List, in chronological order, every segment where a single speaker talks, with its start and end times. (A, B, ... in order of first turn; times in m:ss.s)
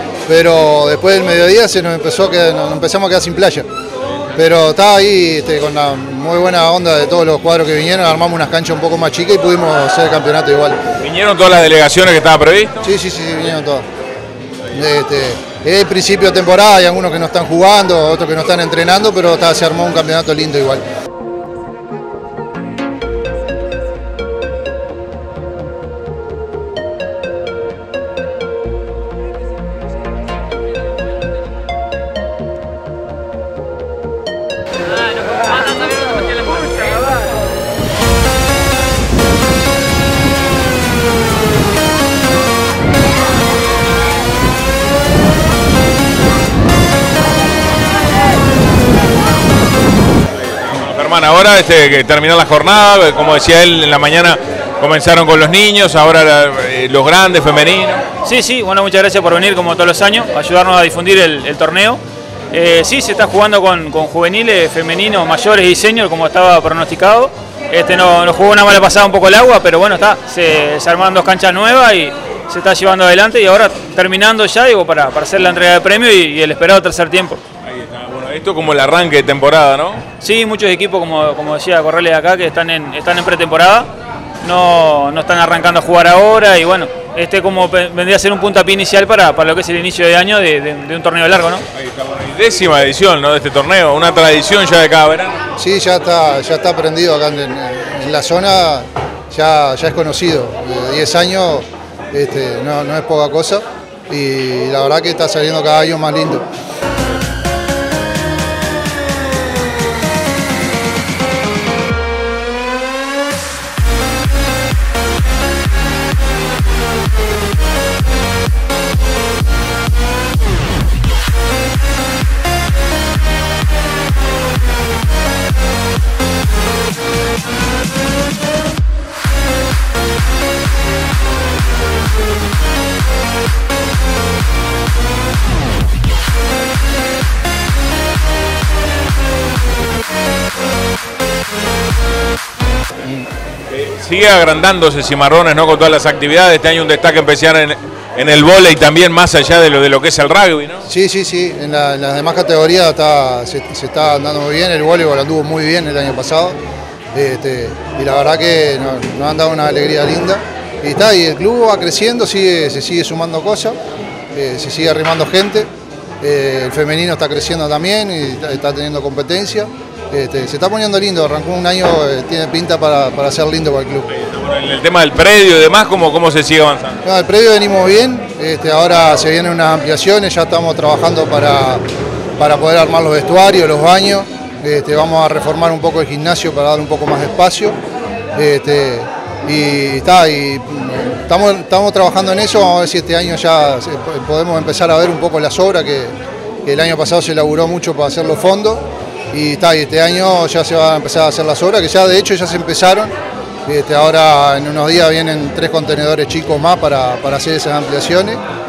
0:00.3-0:03.7 A
0:04.3-0:10.8 A
0:11.0-0:12.9 B
0:12.8-0:13.8 A
0:14.7-0:20.8 A
0:50.6-0:58.0 B
0:58.2-1:17.4 C
1:17.6-1:20.0 B
1:20.2-1:23.9 C
1:24.4-1:31.6 C
1:31.7-1:35.4 B
1:35.6-1:46.5 A
2:23.7-2:30.8 B
2:30.8-2:36.6 A
2:37.1-2:43.8 A
2:44.3-2:45.7 A
2:46.2-2:54.1 A
2:54.1-2:57.0 B
2:57.0-3:01.8 A
3:02.4-3:07.8 A
3:08.3-3:23.1 A
3:23.6-3:28.4 A